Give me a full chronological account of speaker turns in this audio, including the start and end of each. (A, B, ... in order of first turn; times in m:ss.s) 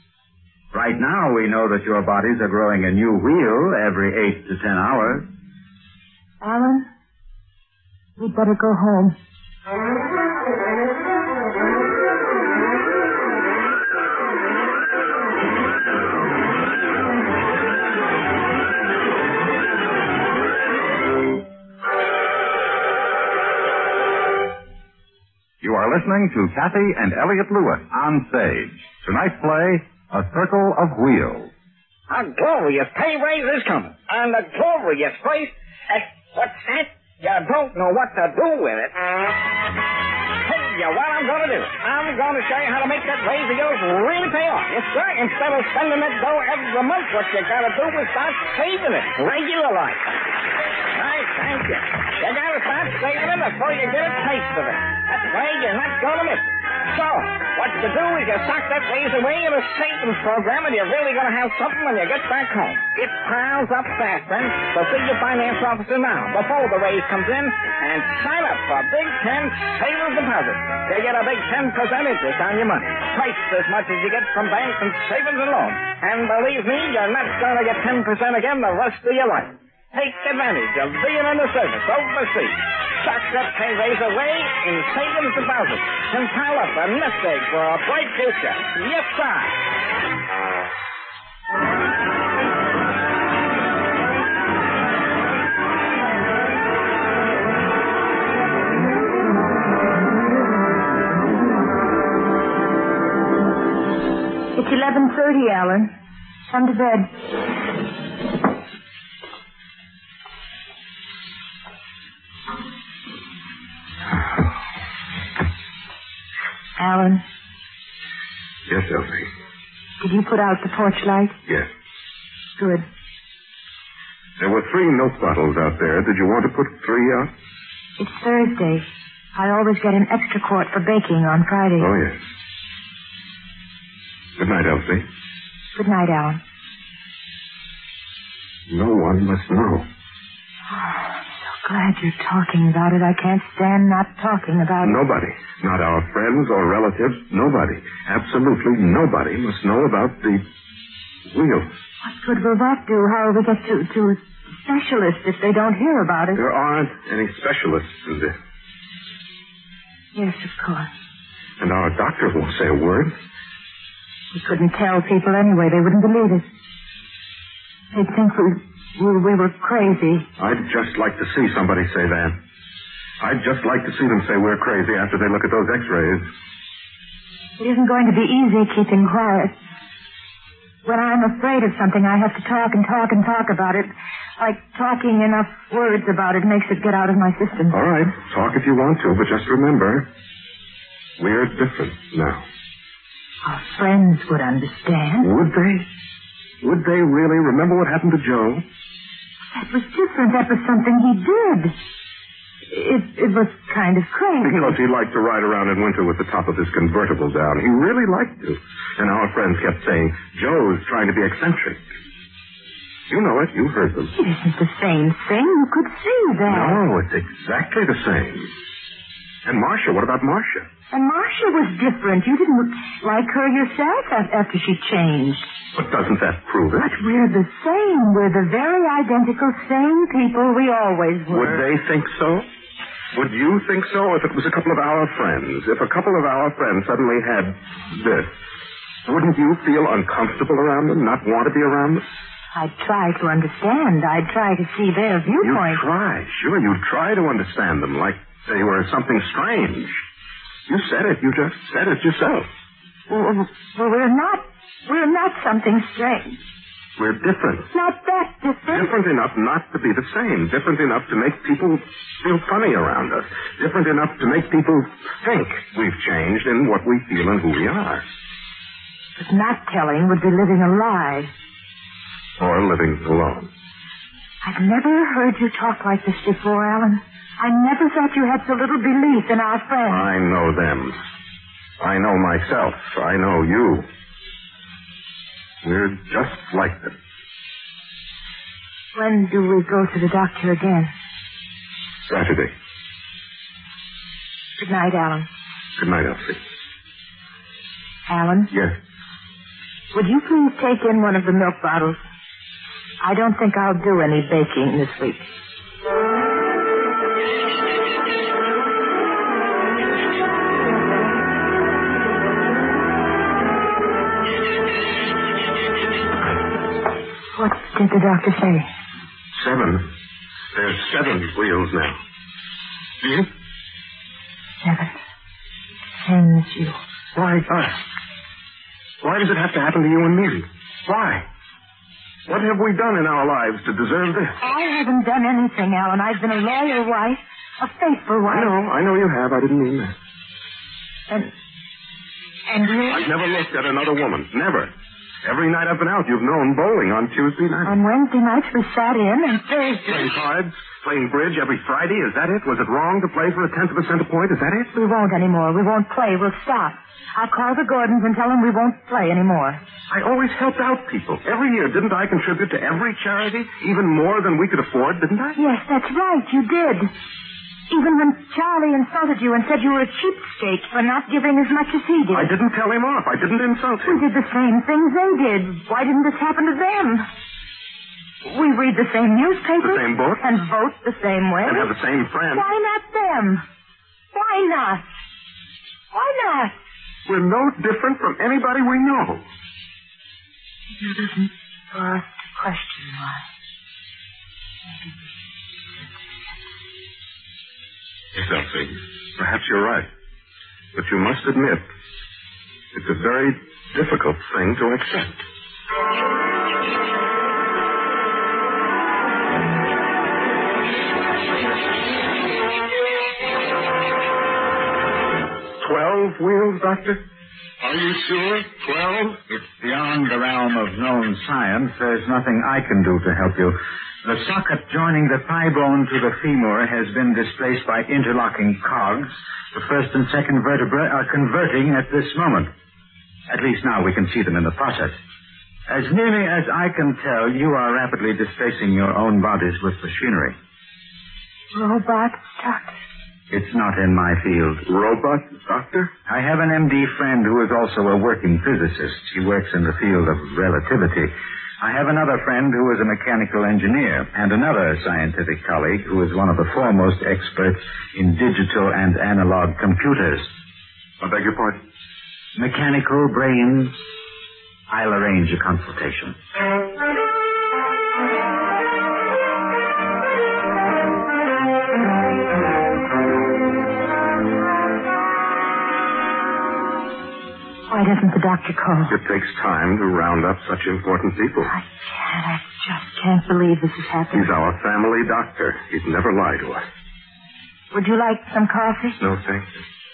0:00.7-0:05.3 A
0:06.4-0:06.9 B
0:08.2-0:09.2 B
0:25.6-0:31.5 C
0:32.1-0:39.0 D
0:40.4-0:50.1 D
0:50.9-1:29.6 D
1:44.5-1:45.9 B
1:46.5-1:47.1 B
1:56.8-1:57.2 B
1:58.7-1:59.3 E
2:00.0-2:01.4 B
2:02.6-2:02.9 B
2:04.4-2:07.3 E
2:08.0-2:11.9 B
2:11.8-2:12.2 E
2:14.4-2:15.1 E
2:15.8-2:16.4 B
2:18.7-2:19.9 E
2:20.7-2:25.0 B
2:24.8-2:30.4 E
2:31.3-2:31.7 E
2:32.0-2:36.4 B
2:36.4-2:38.4 E
2:40.2-2:40.9 B
2:41.6-2:43.2 E
2:44.3-2:46.5 B
2:47.9-2:50.3 B
2:50.4-2:52.4 E
2:53.2-2:56.3 E
2:57.6-2:59.5 B
3:00.8-3:07.8 B
3:07.7-3:10.1 E
3:11.2-3:12.4 E
3:13.4-3:15.3 B
3:15.2-3:15.9 E
3:16.6-3:18.6 E
3:19.5-3:21.7 B
3:22.7-3:24.8 B
3:24.4-3:31.8 E
3:33.1-3:34.1 E
3:34.2-3:36.8 B
3:36.5-3:38.5 E
3:39.4-3:40.7 E
3:40.9-3:45.5 B
3:45.7-3:46.9 E
3:46.8-3:51.7 B
3:51.3-3:52.5 E
3:53.1-3:58.3 E
3:59.1-4:02.0 E
4:02.5-4:05.8 B
4:05.4-4:10.0 E
4:10.7-4:12.5 E
4:13.1-4:16.4 B
4:17.0-4:17.7 E
4:17.7-4:18.9 B
4:18.7-4:28.0 E
4:29.2-4:31.3 B
4:32.4-4:33.5 E
4:34.4-4:40.1 B
4:39.9-4:41.0 E
4:41.8-4:43.9 E
4:45.6-4:47.0 E
4:49.0-4:50.9 B
4:52.1-4:52.5 E
4:54.6-4:55.3 B
4:55.8-4:56.4 E
4:58.1-4:58.5 B
4:59.9-5:02.0 B
5:03.0-5:05.3 B
5:17.4-5:18.7 B
5:19.4-5:19.9 E
5:20.5-5:22.0 E
5:23.0-5:23.3 E
5:24.6-5:25.0 B
5:26.0-5:26.8 B
5:27.2-5:27.8 E
5:29.0-5:31.2 E
5:32.3-5:34.4 E
5:34.4-5:38.5 B
5:38.3-5:39.9 E
5:42.5-5:43.1 B
5:42.9-5:44.7 E
5:45.2-5:47.8 E
5:47.6-5:50.1 B
5:49.9-5:54.7 E
5:54.7-5:59.6 B
5:59.9-6:05.4 E
6:05.4-6:06.9 B
6:07.7-6:12.3 B
6:12.1-6:14.0 E
6:13.9-6:17.1 B
6:18.2-6:21.7 B
6:19.6-6:20.2 E
6:21.4-6:22.5 E
6:22.3-6:23.4 B
6:24.1-6:25.0 B
6:25.9-6:26.6 B
6:27.1-6:29.2 E
6:30.7-6:33.2 B
6:34.7-6:35.0 B
6:38.1-6:39.9 E
6:40.7-6:41.6 E
6:42.7-6:45.2 E
6:55.6-6:57.0 E
6:57.6-6:59.2 E
6:59.3-7:12.5 A
7:13.3-7:15.0 A
7:15.7-7:20.4 A
7:21.5-7:22.8 B
7:23.3-7:24.6 A
7:24.6-7:25.9 E
7:26.1-7:40.3 A
7:41.0-7:41.6 E
7:42.4-7:43.8 A
7:44.7-7:46.2 A
7:57.7-7:58.9 B
7:58.9-8:01.5 E
8:01.5-8:04.4 B
8:04.1-8:06.7 E
8:07.7-8:09.0 B
8:09.0-8:09.5 E